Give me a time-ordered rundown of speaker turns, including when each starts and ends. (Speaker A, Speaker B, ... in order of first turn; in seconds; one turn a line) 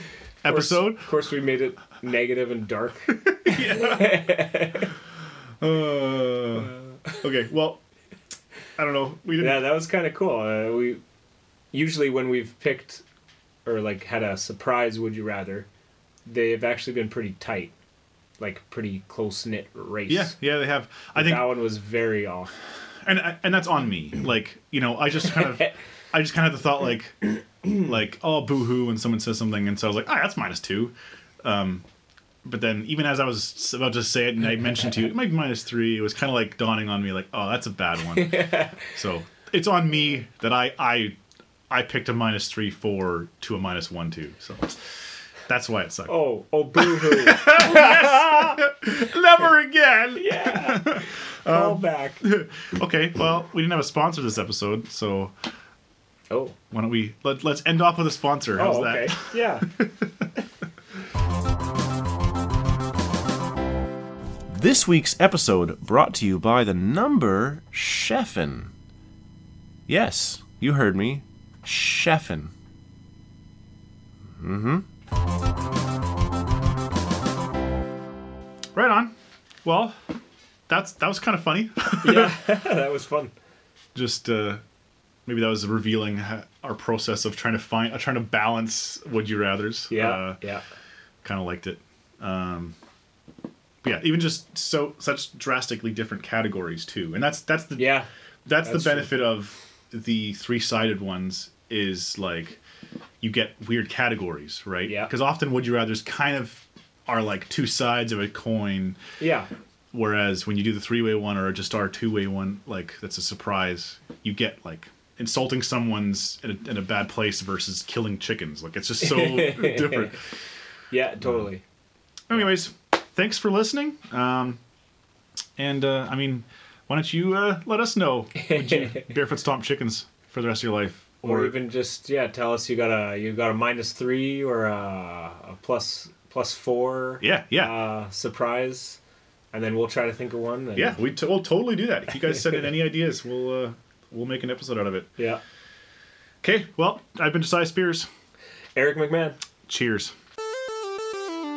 Speaker A: 0.4-1.1
Speaker B: 0.4-4.9
Speaker A: 3.2-4.3
Speaker A: 5.6-7.8
Speaker A: 8.8-9.6
Speaker B: 9.4-11.0
Speaker B: 11.7-13.0
Speaker B: 13.6-15.7
Speaker B: 16.2-17.7
Speaker B: 18.4-20.3
Speaker A: 20.1-21.6
Speaker B: 21.1-22.5
Speaker A: 23.0-30.9
Speaker A: 31.4-31.8
Speaker A: 32.4-41.1
Speaker B: 38.1-38.8
Speaker A: 41.7-44.9
Speaker A: 45.5-46.2
Speaker B: 46.1-48.6
Speaker A: 46.8-55.3
Speaker B: 50.2-52.2
Speaker B: 56.3-56.6
Speaker A: 56.7-60.3
Speaker B: 58.5-59.7
Speaker C: 64.5-68.7
Speaker C: 69.9-72.5
Speaker C: 74.4-74.8
Speaker A: 78.7-79.1
Speaker A: 79.6-79.9
Speaker A: 80.7-82.3
Speaker B: 82.0-83.3
Speaker A: 83.9-84.6
Speaker A: 85.3-90.4
Speaker B: 89.9-90.6
Speaker A: 91.2-92.7
Speaker A: 93.8-102.6
Speaker B: 97.8-98.1
Speaker B: 98.6-99.2
Speaker A: 103.2-109.0
Speaker B: 104.8-105.1
Speaker B: 109.2-109.5
Speaker A: 109.9-120.2
Speaker B: 119.0-120.1
Speaker B: 120.9-121.6
Speaker A: 122.3-124.6
Speaker A: 125.6-131.6
Speaker B: 128.4-129.0
Speaker B: 131.2-139.0
Speaker A: 137.2-137.7
Speaker B: 139.5-141.0
Speaker A: 140.7-145.1
Speaker A: 146.4-148.1
Speaker B: 148.7-149.4
Speaker A: 149.7-150.1